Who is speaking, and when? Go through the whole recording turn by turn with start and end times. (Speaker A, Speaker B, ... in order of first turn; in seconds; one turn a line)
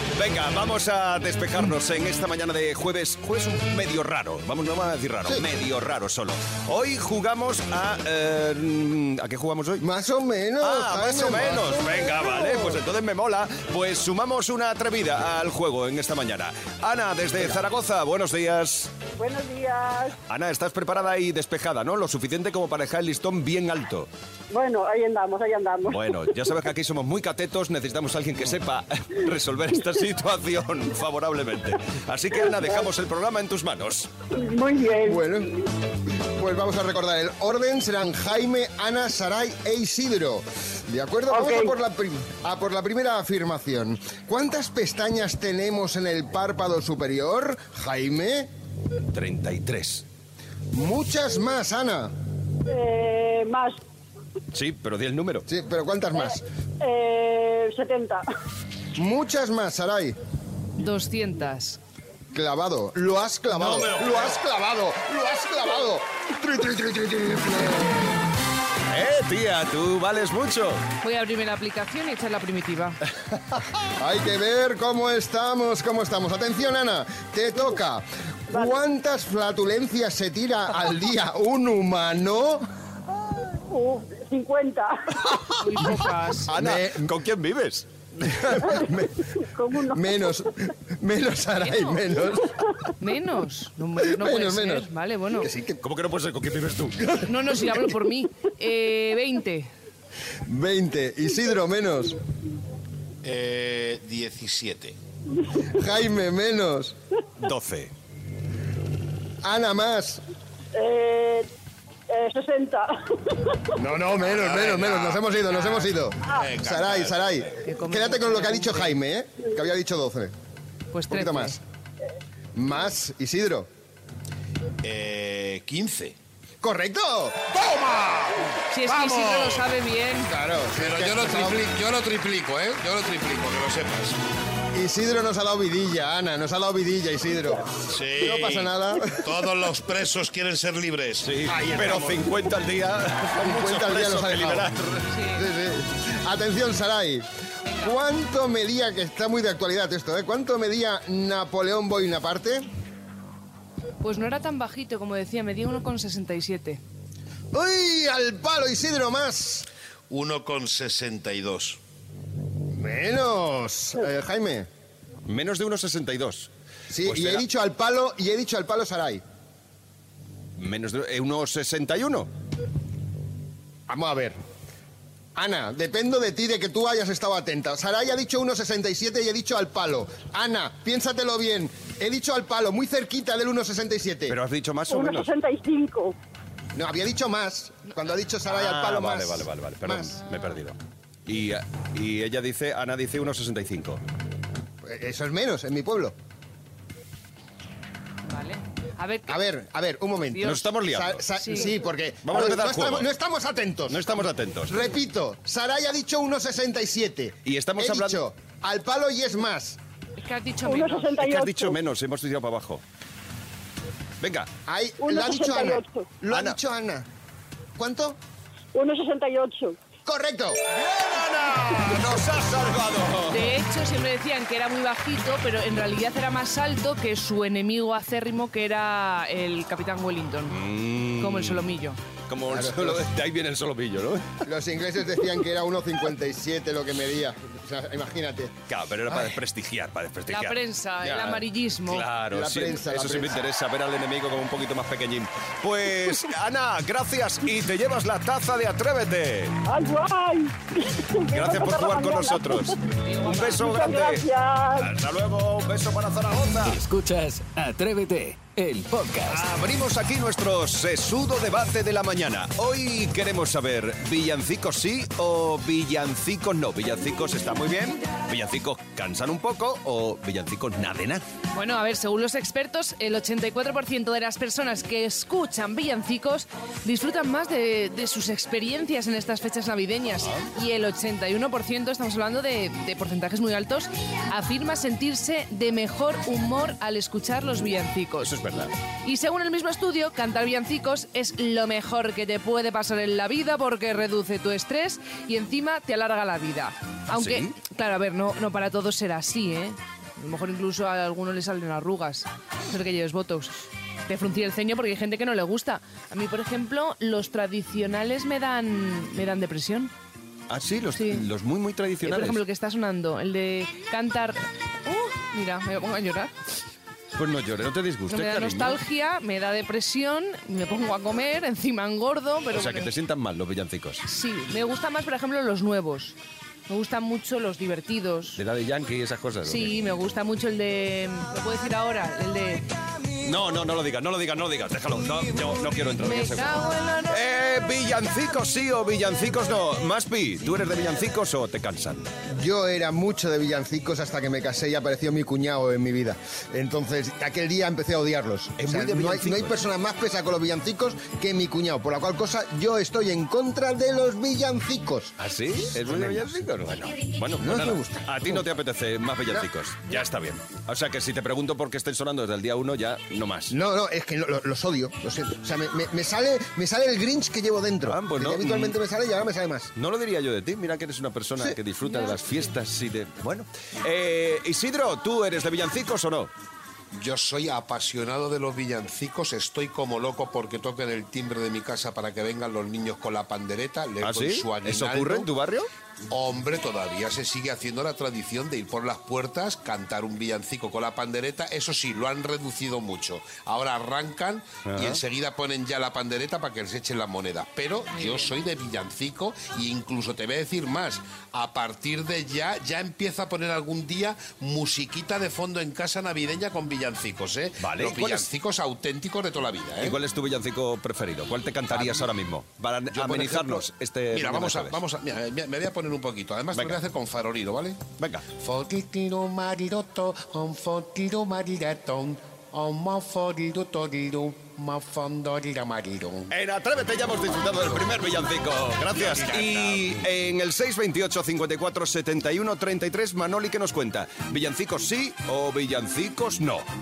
Speaker A: 0.2-9.8
Speaker B: 9.8-12.8
Speaker A: 10.6-18.9
Speaker C: 19.2-20.2
Speaker A: 20.3-24.1
Speaker C: 24.5-26.1
Speaker A: 25.9-34.1
Speaker C: 34.4-35.3
Speaker B: 35.0-35.5
Speaker B: 36.4-48.5
Speaker C: 41.3-41.7
Speaker A: 49.1-50.0
Speaker B: 50.7-52.1
Speaker C: 52.7-53.8
Speaker A: 54.5-55.5
Speaker B: 55.5-56.4
Speaker C: 56.2-58.2
Speaker B: 59.0-60.2
Speaker D: 60.8-61.8
Speaker B: 62.3-68.0
Speaker A: 63.5-64.4
Speaker A: 68.9-70.8
Speaker D: 71.0-73.0
Speaker B: 74.0-82.7
Speaker C: 78.5-78.8
Speaker C: 83.7-85.1
Speaker D: 85.6-86.5
Speaker A: 86.5-88.9
Speaker B: 86.5-87.1
Speaker B: 88.7-89.1
Speaker C: 89.4-90.3
Speaker B: 89.9-92.6
Speaker D: 93.0-95.5
Speaker B: 94.0-95.8
Speaker A: 95.8-97.2
Speaker D: 97.2-99.7
Speaker B: 100.5-102.2
Speaker E: 103.2-105.0
Speaker B: 105.7-107.0
Speaker A: 107.4-107.9
Speaker B: 109.4-110.2
Speaker C: 110.8-111.5
Speaker C: 112.1-113.6
Speaker B: 113.8-120.3
Speaker E: 114.2-115.8
Speaker E: 116.3-117.2
Speaker D: 117.6-118.9
Speaker D: 120.9-121.6
Speaker B: 121.1-121.6
Speaker B: 122.5-123.7
Speaker E: 124.8-126.2
Speaker B: 126.6-127.5
Speaker E: 127.5-129.7
Speaker D: 128.7-130.3
Speaker B: 130.3-131.6
Speaker E: 130.7-134.2
Speaker B: 134.7-139.3
Speaker E: 137.9-141.4
Speaker A: 141.2-145.1
Speaker B: 141.5-142.3
Speaker B: 143.3-144.7
Speaker D: 145.1-145.5
Speaker B: 145.3-147.3
Speaker D: 147.7-147.9
Speaker B: 147.8-152.7
Speaker D: 154.0-156.8
Speaker B: 157.5-159.7
Speaker E: 160.1-161.8
Speaker B: 162.7-164.7
Speaker A: 165.3-166.5
Speaker B: 166.9-169.2
Speaker A: 167.0-167.4
Speaker A: 170.6-172.3
Speaker B: 173.9-174.4
Speaker B: 175.3-184.4
Speaker A: 184.3-185.3
Speaker C: 184.9-186.2
Speaker B: 186.8-190.2
Speaker A: 188.5-194.0
Speaker B: 194.8-196.2
Speaker D: 198.3-199.4
Speaker B: 199.3-209.8
Speaker D: 200.3-200.6
Speaker A: 200.4-201.2
Speaker D: 201.4-201.8
Speaker A: 202.2-203.1
Speaker A: 203.9-204.9
Speaker A: 207.4-208.2
Speaker D: 210.2-211.2
Speaker C: 210.7-211.8
Speaker A: 211.2-212.8
Speaker A: 214.2-214.5
Speaker B: 214.7-217.1
Speaker C: 215.0-216.1
Speaker A: 216.3-216.6
Speaker B: 217.8-218.2
Speaker C: 218.7-219.8
Speaker B: 220.1-220.6
Speaker A: 220.7-223.6
Speaker D: 223.3-230.6
Speaker A: 230.5-231.7
Speaker D: 231.2-232.0
Speaker A: 232.3-234.4
Speaker B: 232.5-233.1
Speaker B: 234.4-238.6
Speaker A: 238.7-249.6
Speaker B: 239.1-239.4
Speaker D: 240.3-242.1
Speaker B: 242.3-243.4
Speaker C: 249.7-252.7
Speaker A: 251.3-256.8
Speaker D: 253.1-253.6
Speaker C: 253.6-254.9
Speaker F: 256.6-259.4
Speaker A: 259.3-271.2
Speaker D: 271.6-288.3
Speaker A: 288.2-288.7
Speaker D: 289.1-303.5
Speaker A: 297.1-297.5
Speaker D: 304.1-309.9
Speaker A: 310.5-312.4
Speaker D: 311.0-311.2
Speaker D: 312.0-316.3
Speaker A: 317.1-318.8
Speaker D: 318.1-322.9
Speaker A: 322.5-324.1
Speaker D: 324.1-326.2
Speaker D: 326.7-328.4
Speaker A: 328.4-329.7
Speaker D: 329.4-332.7
Speaker A: 333.2-342.1
Speaker D: 336.0-337.2
Speaker B: 342.3-355.1
Speaker A: 348.6-349.6
Speaker A: 355.2-363.6
Speaker B: 355.7-356.5
Speaker B: 357.4-358.5
Speaker B: 363.5-369.7
Speaker A: 367.9-368.8
Speaker A: 369.8-376.3
Speaker D: 371.9-372.2
Speaker E: 376.9-385.3
Speaker A: 384.0-385.7
Speaker E: 386.1-410.0
Speaker A: 394.6-395.0
Speaker D: 397.9-398.3
Speaker A: 407.6-408.3
Speaker A: 409.8-414.8
Speaker E: 411.7-412.1
Speaker E: 412.9-426.3
Speaker A: 418.0-418.2
Speaker A: 426.3-436.7
Speaker E: 428.9-430.0